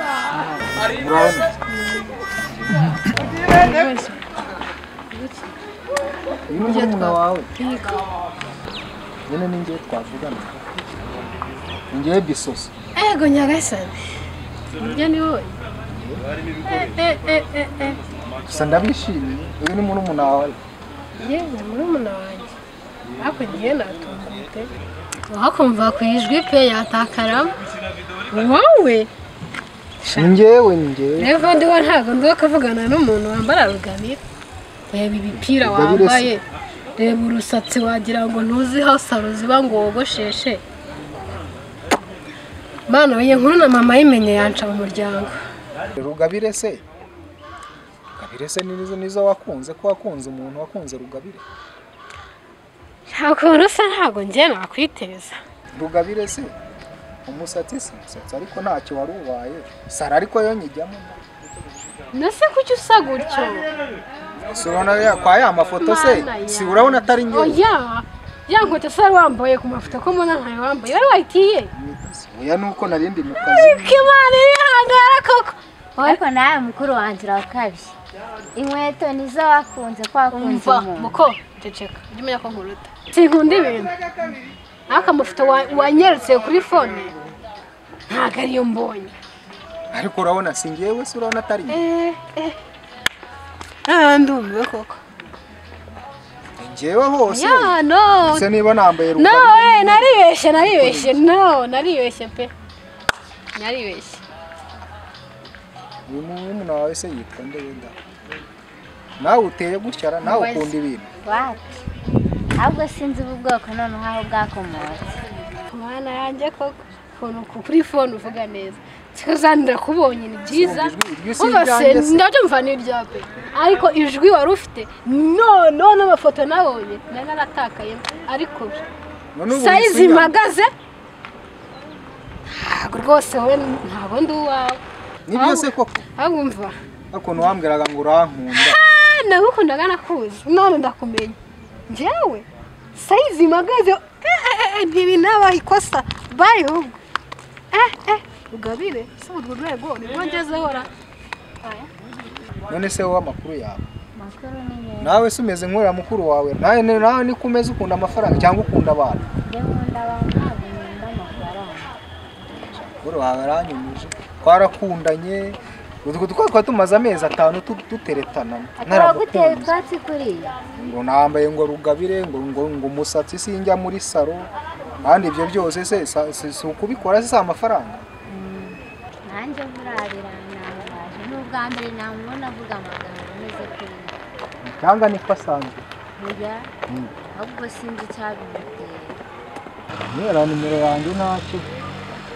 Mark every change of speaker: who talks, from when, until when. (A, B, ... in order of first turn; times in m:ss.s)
0:00.3-0:01.5 A
0:01.5-0:02.2 B
0:02.5-0:03.0 A
0:03.3-0:04.3 B
0:05.1-0:05.5 B
0:06.5-0:07.5 A
0:06.6-0:08.1 B
0:09.3-0:10.7 A
0:11.9-0:12.7 A
0:12.9-0:14.0 B
0:14.8-0:15.5 B
0:15.9-0:16.2 A
0:16.6-0:18.0 B
0:18.4-0:20.6 A
0:21.2-0:22.5 B
0:23.2-0:24.7 B
0:25.3-0:27.5 B
0:28.3-0:29.1 B
0:30.0-0:30.3 B
0:30.2-0:31.4 A
0:31.2-0:34.2 B
0:34.9-0:36.4 B
0:35.5-0:36.4 A
0:37.0-0:40.6 B
0:42.9-0:45.4 B
0:46.0-0:46.8 A
0:48.2-0:51.4 A
0:53.1-0:55.4 B
0:55.7-0:56.5 A
0:57.2-1:01.2 A
1:02.1-1:03.7 B
1:04.5-1:07.6 A
1:05.8-1:11.7 B
1:11.8-1:14.1 A
1:13.4-1:16.2 B
1:16.0-1:18.0 C
1:18.5-1:21.2 C
1:20.3-1:24.0 B
1:24.9-1:27.2 B
1:28.1-1:29.1 B
1:29.9-1:31.9 A
1:31.7-1:32.6 B
1:33.9-1:35.0 B
1:36.6-1:41.2 A
1:37.3-1:38.5 B
1:39.2-1:42.5 B
1:43.6-1:44.2 B
1:46.1-1:47.9 A
1:49.2-1:51.1 A
1:50.2-1:50.7 B
1:51.2-1:51.8 C
1:52.6-1:55.2 C
1:55.7-2:08.8 B
2:00.4-2:02.2 A
2:09.3-2:10.3 A
2:09.5-2:10.7 B
2:12.5-2:14.8 B
2:15.3-2:16.0 A
2:15.3-2:16.8 B
2:17.1-2:18.8 A
2:18.5-2:21.4 B
2:21.9-2:27.0 B
2:27.7-2:30.9 B
2:31.6-2:31.9 B
2:32.7-2:33.9 A
2:34.2-2:35.2 C
2:35.0-2:39.2 A
2:39.4-2:41.9 C
2:42.6-2:49.7 A
2:48.8-2:50.6 C
2:50.8-2:54.5 A
2:55.0-2:58.0 A
2:58.3-3:04.2 C
3:04.6-3:05.9 A
3:06.2-3:06.7 C
3:07.3-3:09.2 C
3:10.0-3:11.7 A